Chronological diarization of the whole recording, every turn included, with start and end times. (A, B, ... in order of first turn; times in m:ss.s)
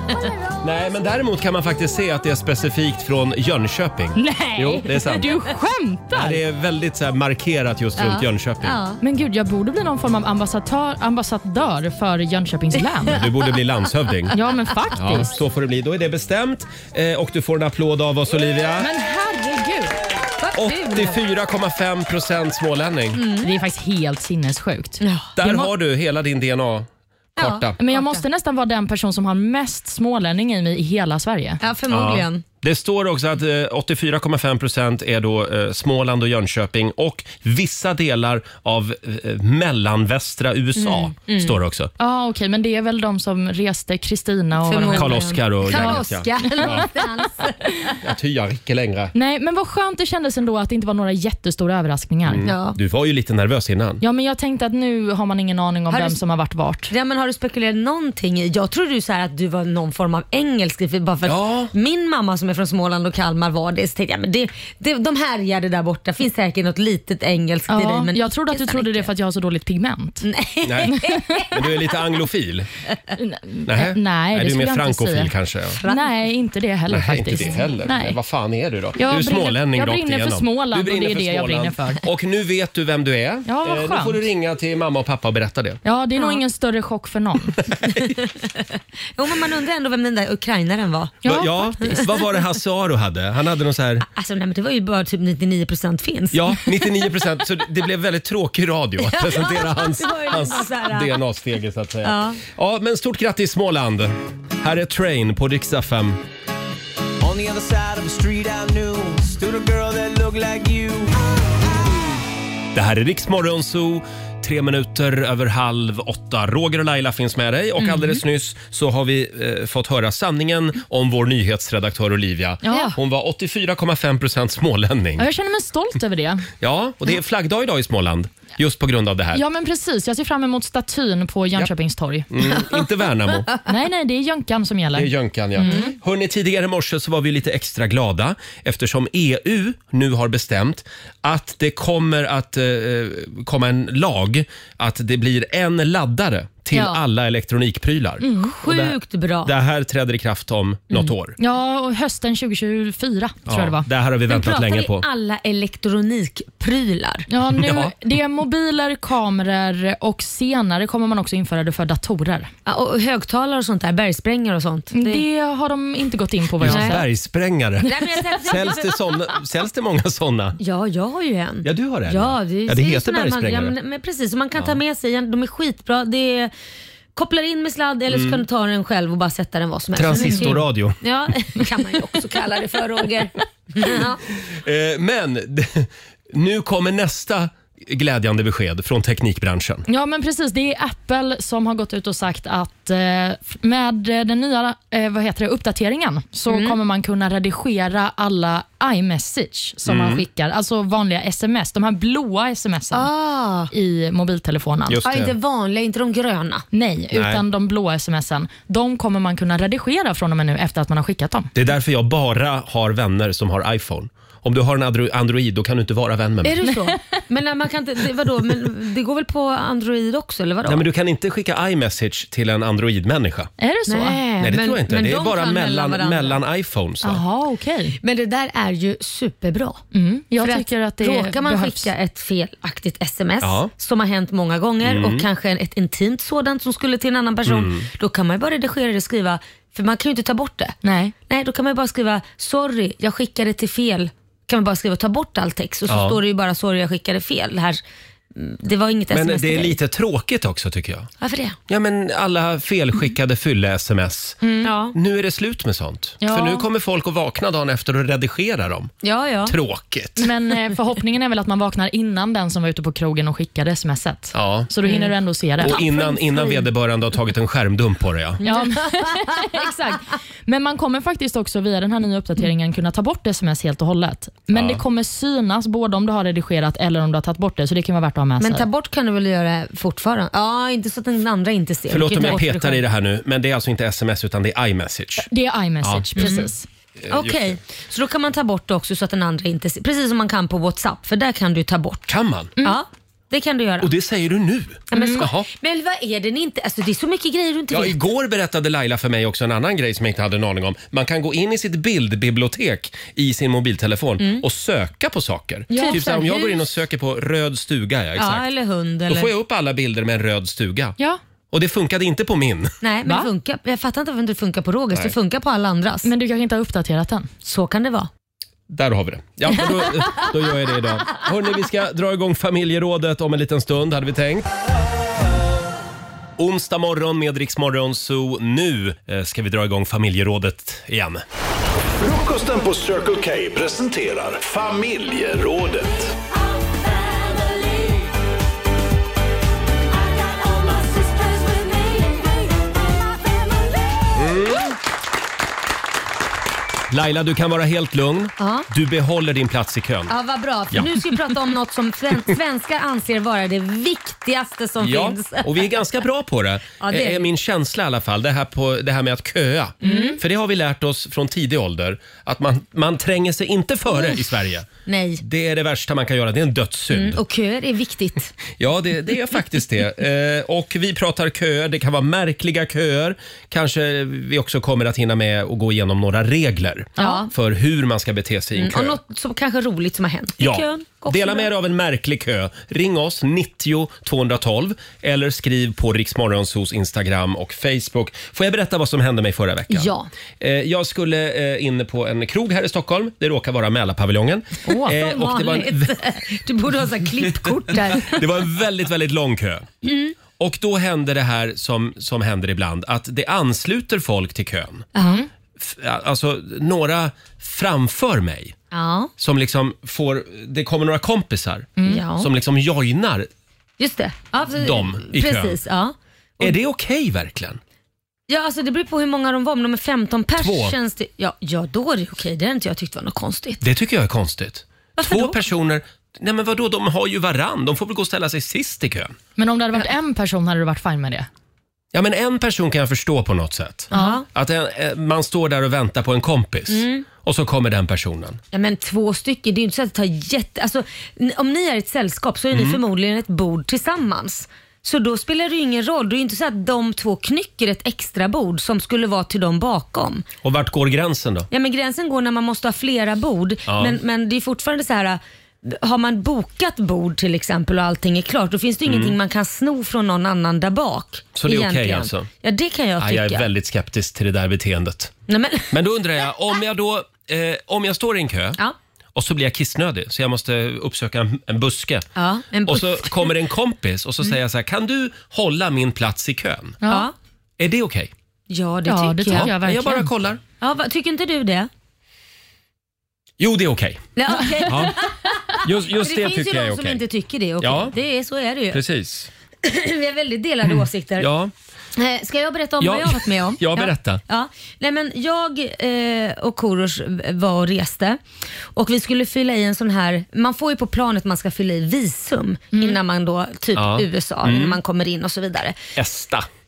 0:00.6-0:05.3 A
0:04.2-0:06.4 B
0:06.1-0:08.8 A
0:08.0-0:09.0 C
0:09.0-0:13.2 B
0:13.1-0:14.4 A
0:14.3-0:15.4 B
0:14.9-0:18.9 A
0:18.8-0:20.0 B
0:20.4-0:21.2 C
0:20.6-0:23.2 A
0:23.2-0:23.5 C
0:23.4-0:25.7 B
0:25.0-0:25.3 C
0:25.4-0:27.8 A
0:27.4-0:28.2 C
0:27.8-0:31.6 B
0:31.6-0:32.4 C
0:31.9-0:41.9 A
0:40.8-0:41.6 C
0:42.0-0:46.9 B
0:44.6-0:47.9 C
0:44.9-0:46.9 A
0:48.0-0:49.1 A
0:49.1-0:52.5 B
0:52.3-0:54.0 A
0:52.4-0:52.8 C
0:54.0-0:56.9 B
0:55.9-0:56.2 C
0:56.9-1:09.1 C
1:01.2-1:01.7 A
1:07.7-1:10.3 B
1:10.2-1:11.7 C
1:10.6-1:12.7 A
1:10.9-1:11.4 B
1:13.2-1:15.3 B
1:13.7-1:15.8 A
1:15.8-1:16.1 C
1:15.8-1:18.2 B
1:16.9-1:25.8 A
1:19.0-1:22.0 B
1:23.5-1:24.2 B
1:25.8-1:27.6 B
1:29.2-1:31.2 C
1:31.2-1:32.0 B
1:31.2-1:34.1 A
1:31.8-1:32.1 C
1:34.2-1:36.4 C
1:36.3-1:46.2 A
1:39.0-1:41.2 C
1:42.0-1:42.4 C
1:47.2-1:51.2 D
1:52.7-2:05.3 A
1:57.8-1:58.1 C
2:02.6-2:02.9 B
2:02.7-2:03.0 C
2:05.2-2:06.5 B
2:06.6-2:09.4 A
2:09.3-2:12.3 B
2:12.3-2:13.5 A
2:13.7-2:15.9 B
2:15.0-2:31.4 A
2:15.6-2:15.9 C
2:26.7-2:27.0 C
2:28.2-2:28.5 B
2:28.4-2:29.5 C
2:31.4-2:33.9 B
2:33.5-2:35.0 A
2:34.3-2:37.3 C
2:37.3-2:42.5 B
2:37.6-2:37.9 A
2:42.7-2:45.2 C
2:44.9-2:47.0 B
2:46.6-2:50.6 A
2:46.6-2:47.0 C
2:47.8-2:49.0 C
2:50.6-2:56.5 C
2:51.6-2:53.8 A
2:57.2-3:04.2 C
2:58.1-2:58.4 A
3:00.0-3:01.0 A
3:00.2-3:00.6 B
3:04.5-3:09.8 A
3:09.9-3:23.1 B
3:16.5-3:16.8 C
3:19.9-3:20.2 A
3:22.9-3:23.7 C
3:23.7-3:25.0 B
3:24.9-3:25.3 A
3:25.0-3:26.7 C
3:26.7-3:31.5 B
3:27.1-3:27.4 A
3:31.6-3:36.6 A
3:36.4-3:40.9 C
3:40.6-3:43.5 A
3:43.6-3:44.2 B
3:43.9-3:46.4 C
3:44.4-3:47.2 A
3:47.0-3:48.0 B
3:48.0-3:49.8 C
3:49.9-3:51.9 B
3:50.4-4:07.8 C
3:53.4-3:53.7 A
3:54.8-3:55.2 A
3:57.5-3:57.9 A
4:00.8-4:01.1 B
4:05.9-4:06.2 A
4:08.4-4:09.8 C
4:09.1-4:11.1 A
4:11.2-4:11.6 C
4:11.7-4:14.4 A
4:14.4-4:14.9 C
4:14.9-4:18.9 A
4:16.2-4:16.6 B
4:19.0-4:19.6 C
4:19.5-4:20.3 A
4:20.2-4:25.8 B
4:24.3-4:24.7 A
4:24.9-4:25.1 C
4:25.6-4:28.4 A
4:25.6-4:26.6 C
4:28.4-4:29.3 C
4:28.4-4:38.7 B
4:34.5-4:34.8 A
4:38.4-4:42.8 C
4:41.9-4:45.3 A
4:45.2-4:46.7 B
4:45.8-4:47.6 A
4:46.2-4:46.5 C
4:47.1-4:52.1 C
4:52.1-4:52.5 A
4:52.6-4:53.9 C
4:53.8-4:55.5 A
4:54.9-4:58.0 C
4:54.9-4:55.2 B
4:57.7-5:08.5 A
5:04.2-5:04.4 C
5:05.7-5:06.0 B
5:05.7-5:06.6 C
5:08.2-5:09.3 C
5:09.1-5:11.0 A
5:11.5-5:12.7 A
5:12.8-5:16.1 C
5:16.0-5:17.3 B
5:17.4-5:18.1 C
5:18.7-5:24.5 A
5:26.4-5:31.2 A
5:32.0-5:36.1 E
5:44.1-5:44.8 A
5:46.9-5:50.1 A
5:48.4-5:48.7 C
5:50.1-5:55.7 C
5:54.8-6:04.7 A
5:56.8-5:57.3 C
5:59.8-6:00.2 C
5:59.8-6:00.1 B
6:04.9-6:05.2 C
6:05.2-6:07.2 A
6:06.9-6:08.4 C
6:08.6-6:19.0 A
6:17.0-6:17.3 C
6:18.6-6:21.5 C
6:20.4-6:29.9 A
6:29.7-6:30.1 C
6:30.4-6:36.0 A
6:34.8-6:38.2 C
6:37.9-6:39.7 A
6:39.8-6:40.1 C
6:40.4-6:44.8 A
6:45.0-6:45.2 C
6:45.6-6:48.6 A
6:48.7-6:49.1 C
6:49.2-6:53.3 A
6:51.8-6:52.3 C
6:53.8-6:56.6 C
6:54.6-6:55.6 A
6:56.4-6:57.6 A
6:58.3-7:03.6 C
7:00.4-7:00.8 A
7:03.6-7:09.2 A
7:05.0-7:05.4 C
7:09.4-7:11.3 B
7:11.9-7:18.4 A
7:13.9-7:14.2 B
7:13.9-7:14.2 C
7:16.7-7:17.1 C
7:18.5-7:30.3 C
7:22.5-7:22.8 A
7:30.4-7:31.5 A
7:31.5-7:43.5 C
7:33.7-7:34.0 A
7:38.9-7:39.2 A
7:41.4-7:42.3 A
7:43.0-7:45.1 A
7:45.3-7:45.8 C
7:45.7-7:48.6 A
7:49.2-7:52.1 A
7:52.2-7:53.3 C
7:52.7-7:56.8 A
7:56.8-7:57.1 B
7:56.9-7:57.1 C
7:57.6-7:58.1 A
7:58.5-7:59.5 C
7:58.9-8:00.1 B
7:59.3-8:00.4 A
8:00.6-8:01.7 C
8:03.4-8:04.1 A
8:04.2-8:08.8 C
8:04.7-8:05.0 A
8:05.6-8:07.0 A
8:07.6-8:07.9 A
8:08.7-8:09.3 A
8:09.6-8:11.3 C
8:10.7-8:11.5 A
8:12.0-8:18.2 C
8:12.8-8:14.2 A
8:18.8-8:25.8 C
8:22.7-8:23.0 B
8:23.8-8:24.8 A
8:26.0-8:26.5 A